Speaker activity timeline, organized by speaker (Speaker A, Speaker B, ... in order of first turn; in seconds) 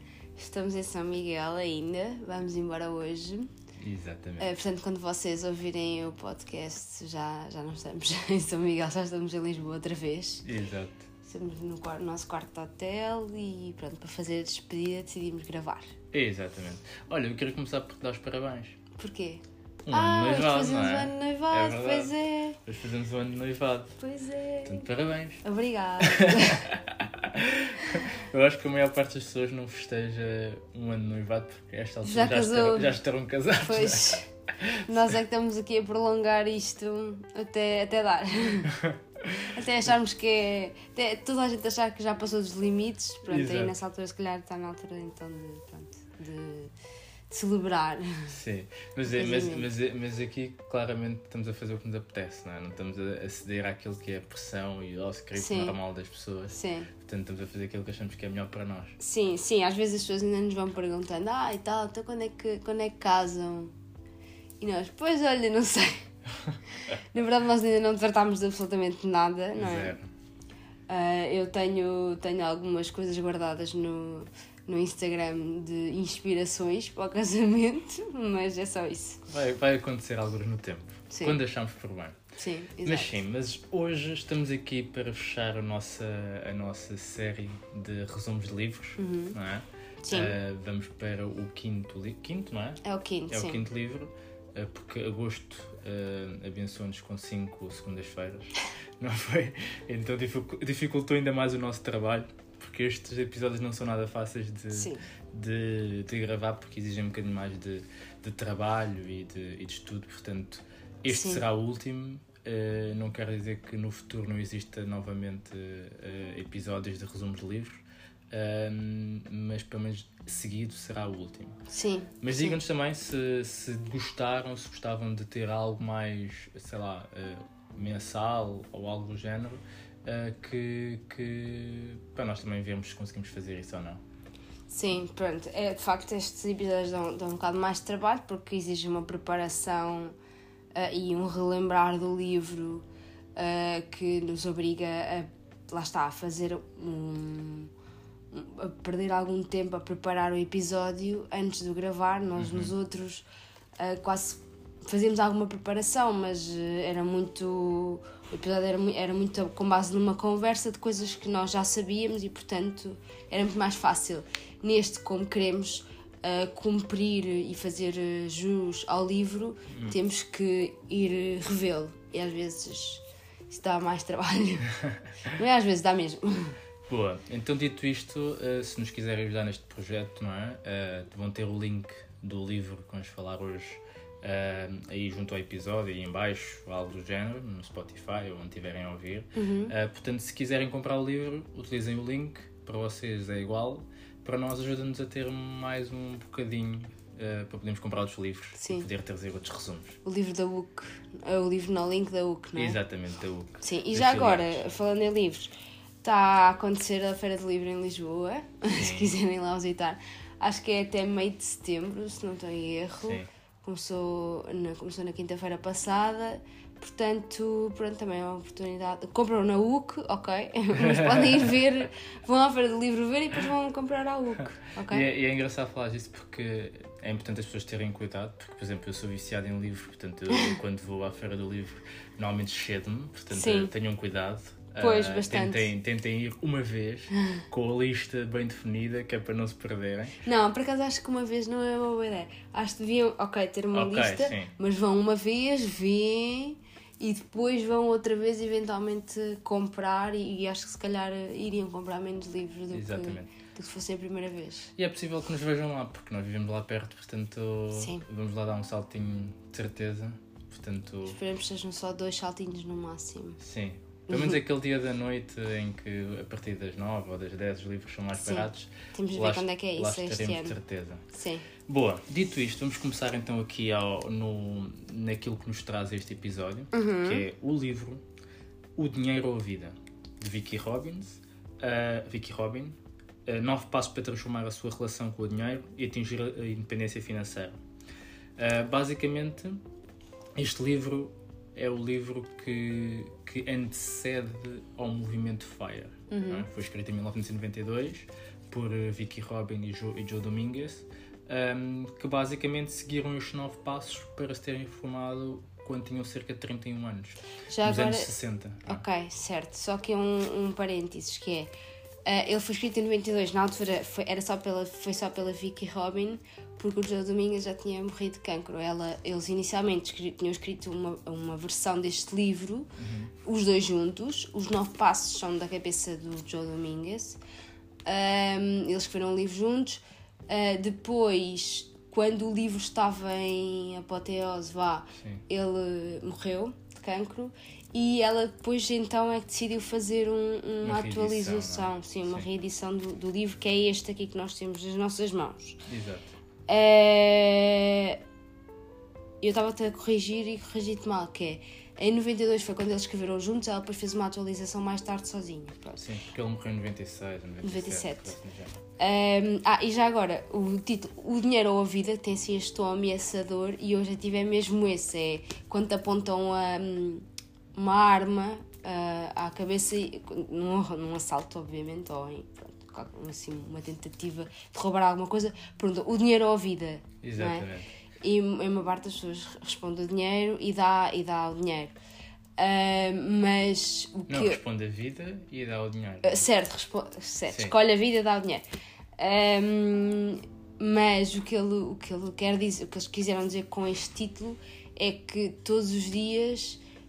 Speaker A: 0.4-3.5, 4.4-10.4, 11.2-15.9, 19.0-22.6, 24.0-24.9, 25.4-26.7, 32.0-33.0, 33.6-34.3, 34.9-38.8, 39.5-46.7, 47.3-48.4, 49.1-49.7, 55.4-55.8, 56.5-56.9, 59.0-63.7, 64.6-66.1, 66.7-70.0, 70.9-79.2, 81.1-81.4, 82.4-83.2, 89.0-89.4, 90.0-90.3, 92.8-93.6, 104.7-105.0, 111.1-111.4, 121.7-122.6, 134.7-140.1, 140.8-142.8, 143.4-147.7, 148.3-153.3, 153.8-174.8, 175.3-176.6, 189.3-189.7, 198.6-198.9, 200.1-202.8, 203.6-205.5, 206.0-225.1, 230.3-230.6, 233.3-233.7, 234.8-235.7, 240.2-254.7, 257.7-258.0, 261.1-263.4, 264.1-264.4, 268.2-270.6, 271.1-271.5, 276.7-277.2, 296.1-296.4, 307.5-308.1, 308.6-311.5, 312.1-322.7, 323.2-327.2, 327.9-345.6, 346.5-348.0, 349.2-355.9, 357.4-358.2, 358.8-377.5, 378.0-381.8, 382.4-384.4, 386.0-388.4, 389.0-396.6
Speaker B: 3.8-4.5, 10.4-11.1, 16.1-18.8, 19.9-22.1, 22.6-24.0, 24.6-25.4, 26.0-34.9, 38.7-39.5, 43.3-43.8, 48.3-59.0, 69.6-70.1, 79.3-82.2, 82.8-121.6, 122.2-134.0, 152.4-152.7, 169.7-170.0, 174.8-175.1, 176.9-200.0, 202.6-204.7, 208.7-209.1, 220.8-221.5, 224.8-240.2, 243.7-244.5, 252.7-253.3, 254.8-261.2, 263.4-271.1, 271.7-278.0, 278.8-287.6, 288.4-289.6, 290.4-308.8, 322.8-323.1, 335.0-335.2, 340.6-342.2, 345.7-346.1, 355.8-358.6, 377.0-377.7, 384.1-386.2, 387.3-387.6